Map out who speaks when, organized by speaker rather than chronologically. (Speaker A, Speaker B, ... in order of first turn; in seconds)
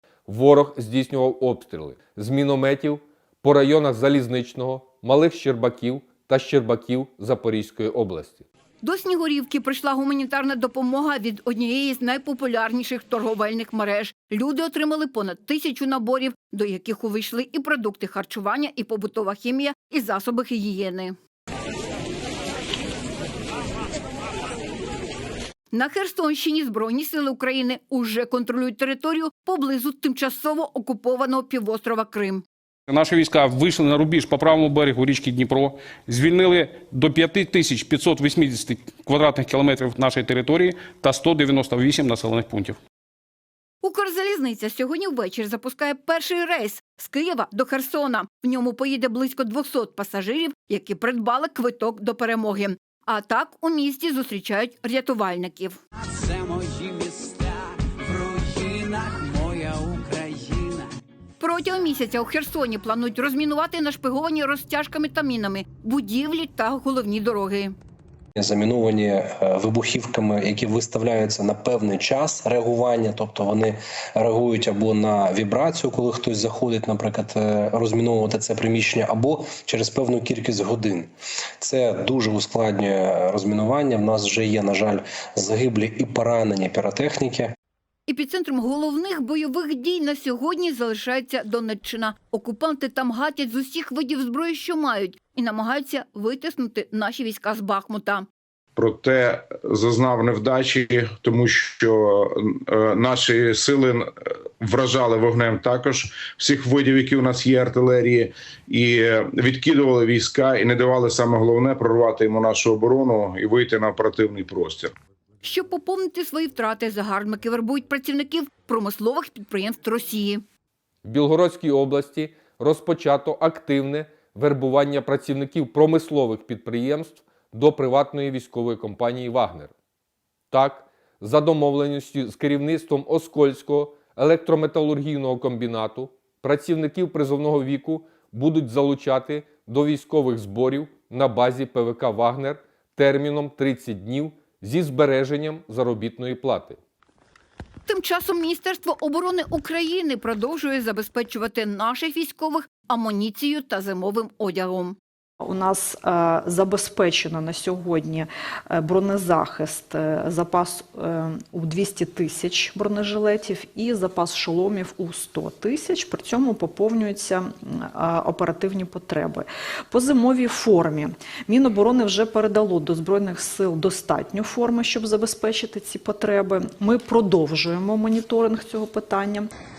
Speaker A: 0.3-8.4, 121.0-129.7, 130.5-146.8
Speaker B: 8.8-21.1, 25.7-32.4, 43.8-55.8, 61.4-67.7, 88.1-98.2, 115.4-120.4, 147.9-154.9
Speaker C: 32.9-42.8, 56.1-60.9
Speaker D: 68.3-87.5
Speaker E: 98.8-114.9
Speaker F: 155.4-179.5